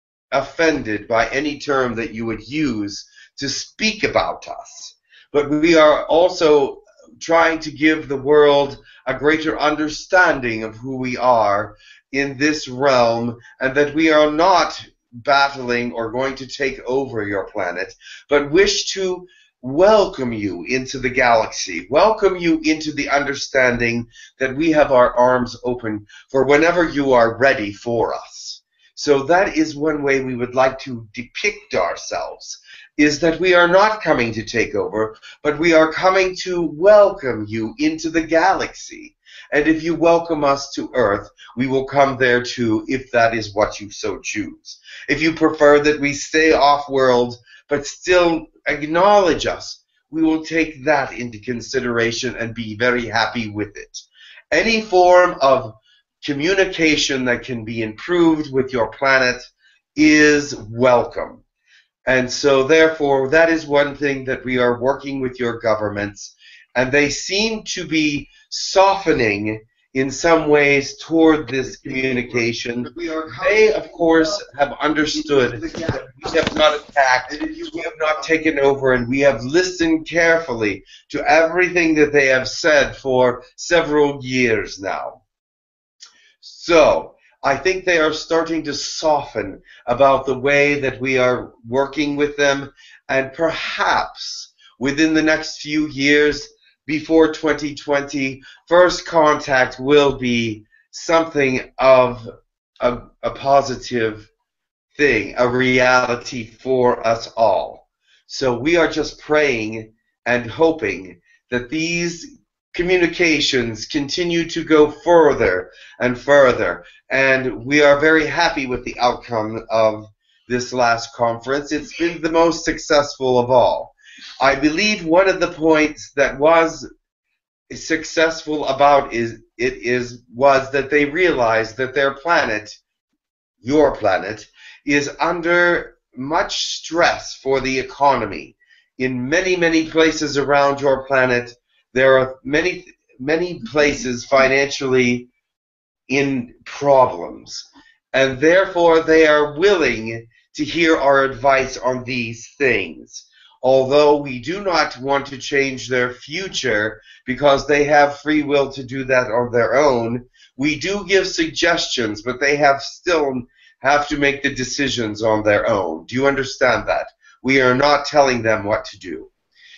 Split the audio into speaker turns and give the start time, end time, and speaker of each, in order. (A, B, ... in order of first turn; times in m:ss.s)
0:00.3-1:01.4 A
1:02.0-1:25.2 A
1:26.4-1:44.3 A
1:45.0-2:06.9 A
2:07.7-2:12.8 A
2:13.6-2:25.3 A
2:26.1-2:49.3 A